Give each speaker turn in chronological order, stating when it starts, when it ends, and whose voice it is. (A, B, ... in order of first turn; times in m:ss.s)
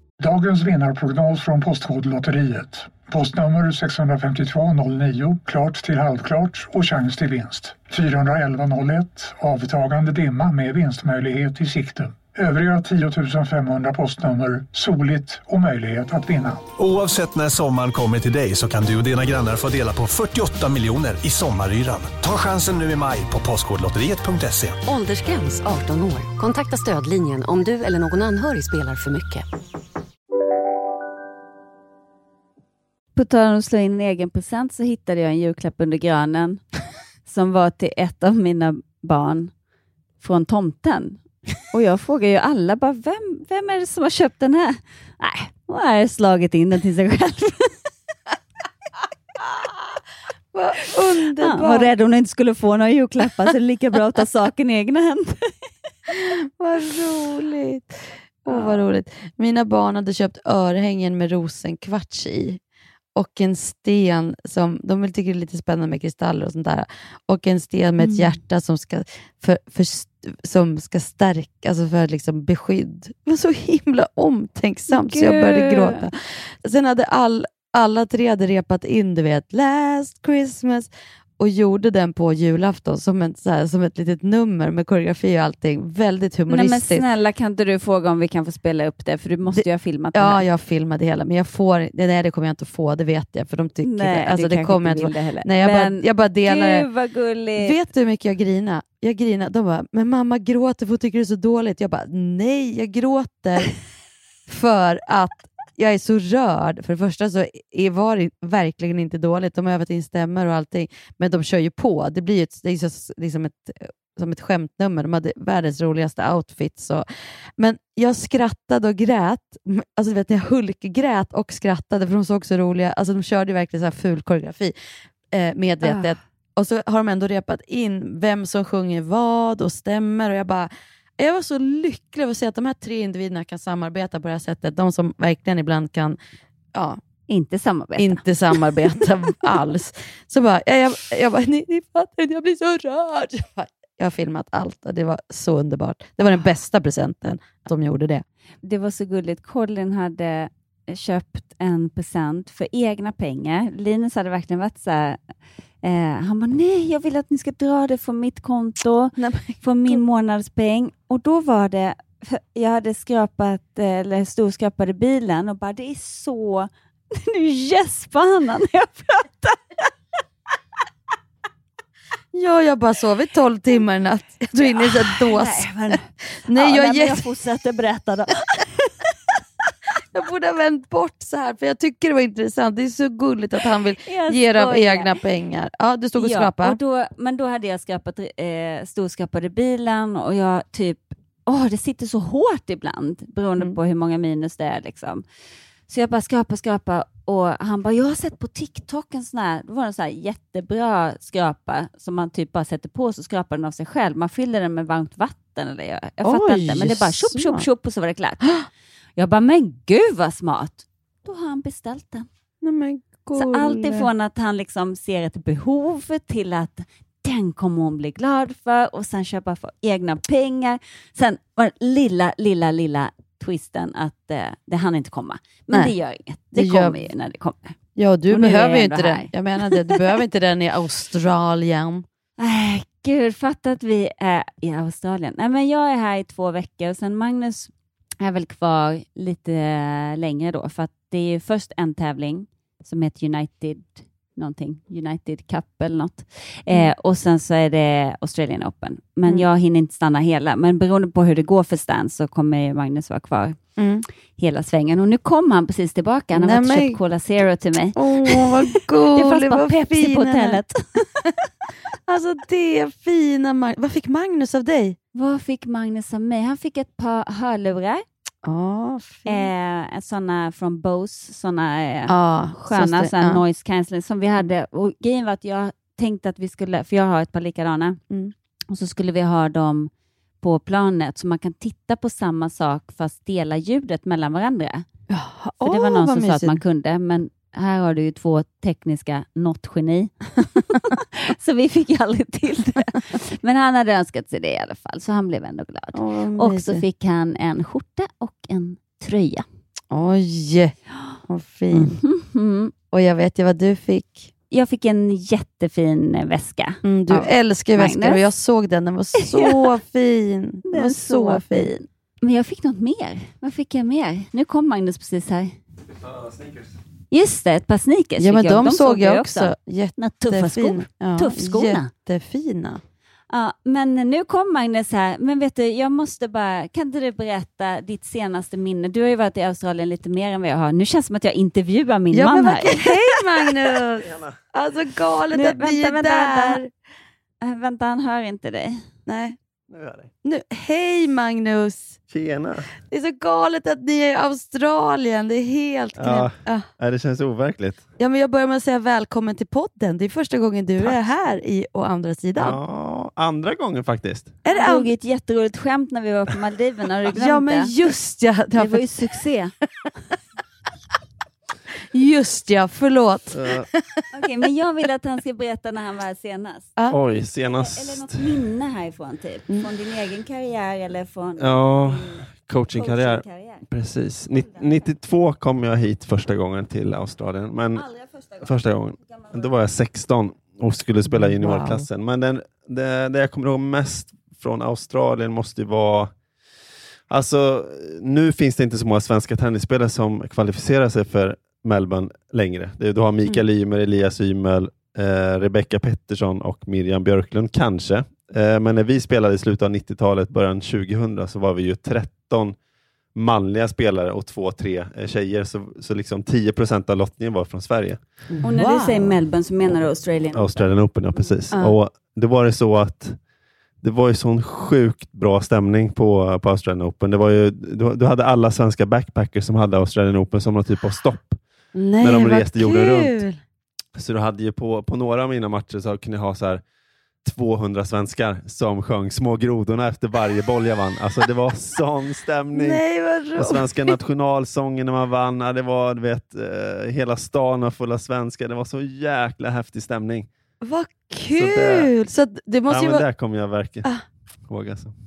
0:00.2-0:16.7 A
0:16.8-0:24.8 B
0:25.1-0:26.0 C
0:26.6-0:29.3 C
0:33.2-0:36.6 D
0:37.3-0:39.5 D
0:40.2-0:47.8 D
0:50.5-0:51.9 E
0:51.4-0:55.5 D
0:56.1-1:02.6 E
0:58.5-0:58.8 D
1:03.2-1:27.0 E
1:08.0-1:08.4 D
1:14.9-1:16.1 D
1:26.5-1:30.4 D
1:29.5-1:36.9 E
1:33.8-1:37.8 D
1:37.6-1:43.7 E
1:44.5-1:57.1 E
1:57.6-2:04.8 E
2:05.3-2:16.2 E
2:05.8-2:06.2 D
2:16.7-2:17.0 E
2:17.3-2:18.2 D
2:18.0-2:28.2 E
2:28.6-2:35.2 D
2:35.8-2:49.9 D
2:39.2-2:40.0 E
2:52.3-2:57.3 E
2:54.6-2:59.0 D
3:00.1-3:06.8 E
3:04.0-3:05.1 D
3:06.2-3:15.2 D
3:15.9-3:28.5 D
3:26.2-3:27.7 E
3:29.2-3:32.3 D
3:32.6-3:34.1 E
3:33.4-3:47.8 D
3:46.5-3:47.0 E
3:48.0-3:52.0 E
3:48.3-3:50.0 D
3:52.4-4:13.6 D
4:13.8-4:14.0 E
4:14.4-4:21.1 D
4:16.4-4:17.0 E
4:18.0-4:20.6 E
4:22.1-4:25.0 E
4:25.1-4:28.0 D
4:28.4-4:29.5 E
4:29.3-4:38.0 D
4:32.1-4:33.4 E
4:38.7-4:39.9 D
4:40.4-4:44.9 D
4:45.1-4:46.6 E
4:45.6-4:59.4 D
4:55.9-4:56.8 E
4:59.9-5:02.0 E
5:01.7-5:02.7 D
5:02.9-5:04.3 E
5:04.5-5:08.3 D
5:06.8-5:11.7 E
5:09.2-5:09.7 D
5:10.7-5:15.6 D
5:16.0-5:16.7 F
5:17.1-5:21.9 D
5:18.2-5:22.8 E
5:23.3-5:33.5 D
5:32.1-5:36.7 E
5:35.3-5:36.6 D
5:37.4-5:38.8 D
5:39.1-5:39.4 E
5:39.7-5:40.1 F
5:40.2-5:42.0 E
5:42.1-5:42.7 F
5:42.9-5:46.7 E
5:46.0-5:47.8 F
5:48.0-5:52.6 E
5:52.4-5:54.4 F
5:54.4-5:54.9 E
5:54.5-5:57.7 D
5:57.1-5:59.2 E
5:58.6-5:59.5 D
6:01.9-6:04.0 E
6:03.3-6:03.7 F
6:04.1-6:06.7 D
6:06.9-6:08.3 F
6:07.5-6:13.7 D
6:11.4-6:17.9 F
6:14.4-6:14.9 D
6:17.7-6:18.5 D
6:18.4-6:26.1 F
6:19.1-6:19.5 D
6:21.2-6:21.8 E
6:27.1-6:42.6 F
6:43.2-6:48.0 F
6:48.3-6:49.2 E
6:48.4-6:51.3 D
6:50.3-6:53.2 F
6:53.8-7:01.4 F
7:01.7-7:03.4 E
7:02.0-7:03.2 F
7:04.0-7:06.6 F
7:07.2-7:12.8 F
7:12.5-7:13.9 E
7:13.4-7:20.3 F
7:20.6-7:23.0 E
7:21.3-7:21.9 F
7:22.7-7:23.9 F
7:24.5-7:24.9 F